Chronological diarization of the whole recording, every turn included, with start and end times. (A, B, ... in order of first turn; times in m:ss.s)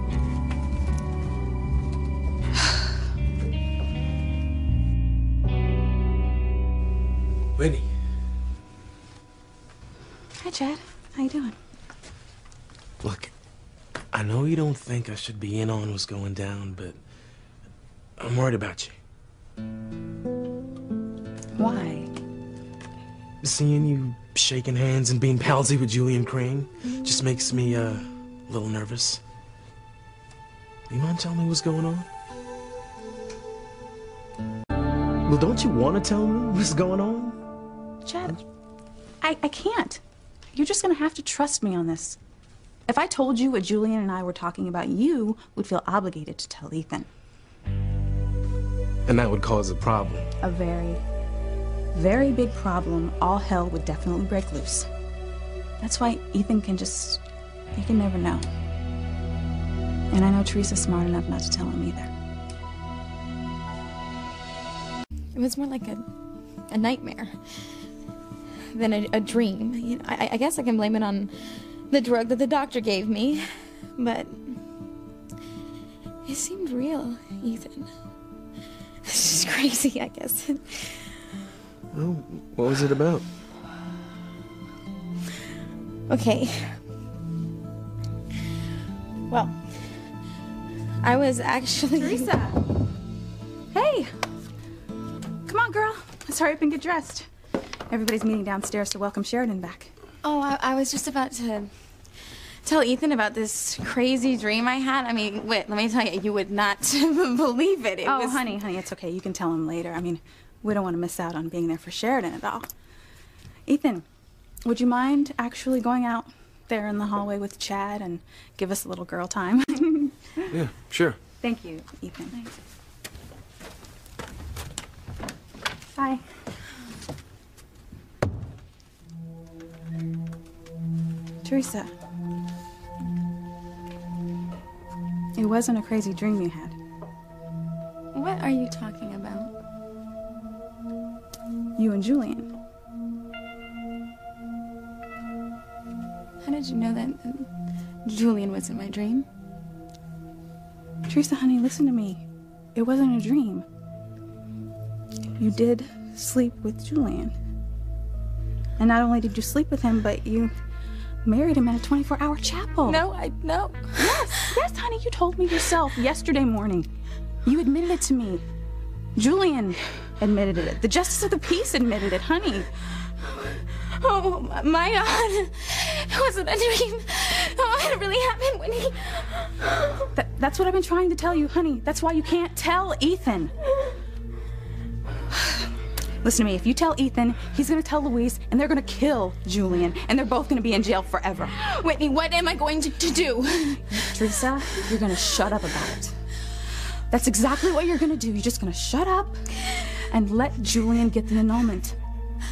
0:07.6-0:07.9 A
0:10.4-0:11.6 B
0:13.0-0:13.3 A
0:14.1-0:17.0 A
0:18.2-0:19.0 A
0:21.6-0:22.1 B
0:23.4-0:29.2 A
0:30.9-0:32.1 A
0:35.2-0:37.4 A
0:38.0-0:38.4 B
0:39.2-0:40.0 B
0:40.5-0:42.2 B
0:42.9-0:47.1 B
0:49.1-0:50.3 A
0:50.4-0:51.0 B
0:51.9-0:54.9 B
0:55.8-0:57.2 B
0:57.8-0:58.5 B
1:00.1-1:02.1 B
1:05.3-1:06.0 C
1:06.7-1:07.4 C
1:08.7-1:14.6 C
1:16.2-1:17.9 C
1:19.0-1:21.2 C
1:21.9-1:23.2 A
1:26.1-1:26.8 C
1:29.3-1:29.6 C
1:31.0-1:32.3 C
1:32.0-1:32.6 B
1:33.7-1:34.1 B
1:35.4-1:37.3 B
1:37.9-1:39.9 B
1:40.2-1:41.7 C
1:42.6-1:48.6 C
1:48.0-1:52.7 B
1:53.7-1:54.0 B
1:54.6-2:00.5 B
2:00.5-2:01.2 A
2:01.4-2:02.4 B
2:05.9-2:06.2 B
2:11.4-2:11.9 B
2:15.4-2:16.8 B
2:18.1-2:19.5 C
2:21.8-2:22.5 B
2:26.4-2:27.5 C
2:28.0-2:29.2 C
2:31.1-2:32.2 B
2:32.7-2:33.6 B
2:35.4-2:37.3 B
2:38.8-2:40.5 B
2:41.2-2:43.0 B
2:42.8-2:44.5 C
2:44.0-2:46.9 B
2:47.4-2:48.4 B
2:49.2-2:52.7 B
2:53.5-2:59.7 C
3:00.1-3:03.5 B
3:06.2-3:11.6 B
3:11.6-3:14.1 C
3:14.1-3:16.1 B
3:17.1-3:19.4 B
3:19.9-3:22.0 B